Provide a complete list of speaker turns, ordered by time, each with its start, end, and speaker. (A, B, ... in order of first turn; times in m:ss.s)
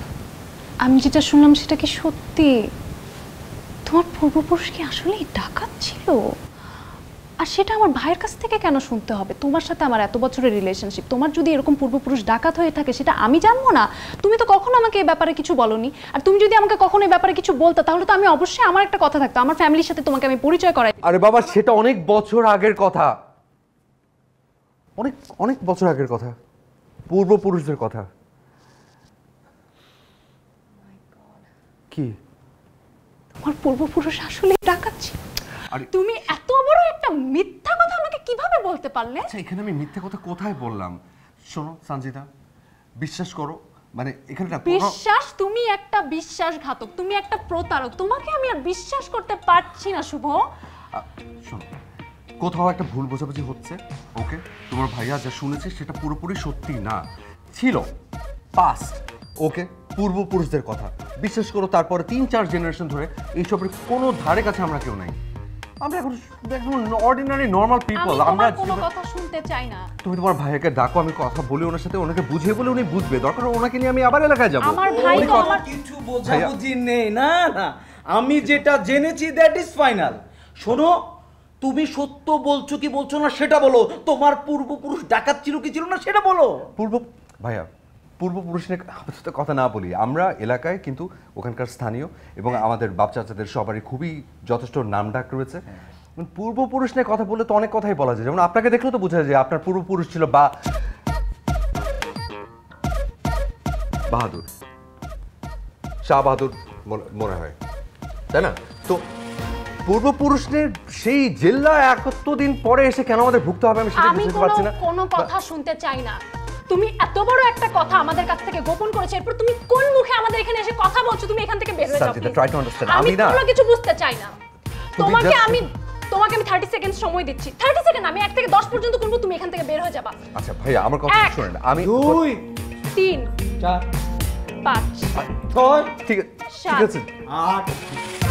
0:00.8-0:02.5 A
0:03.9-0:06.2 A
0:07.4-0:21.2 A
0:21.0-0:23.1 B
0:25.0-0:26.4 B
0:27.1-0:28.1 B
0:30.9-0:31.4 A
0:33.4-0:35.2 A
0:35.9-0:39.3 A
0:39.3-0:42.3 B
0:43.0-0:45.0 B
0:44.6-0:50.4 A
0:50.9-0:51.7 B
0:52.4-0:57.0 B
0:57.5-0:57.9 B
0:58.6-1:05.2 B
1:05.8-1:08.9 B
1:08.0-1:09.9 A
1:10.0-1:15.5 B
1:14.6-1:15.7 A
1:14.8-1:21.0 C
1:16.3-1:16.5 B
1:21.6-1:26.7 C
1:26.8-1:27.7 B
1:28.2-1:35.6 B
1:36.2-1:40.5 B
1:44.1-1:44.5 B
1:46.0-1:47.6 B
1:48.3-1:49.0 B
1:49.9-1:55.3 B
1:54.0-2:04.3 A
2:01.9-2:03.4 B
2:05.0-2:10.2 A
2:05.0-2:05.6 B
2:10.4-2:12.3 B
2:11.1-2:11.5 A
2:11.8-2:12.4 C
2:12.9-2:13.3 A
2:14.6-2:15.2 A
2:15.2-2:15.5 B
2:15.5-2:16.0 C
2:16.0-2:17.1 B
2:16.5-2:17.0 A
2:17.3-2:17.8 C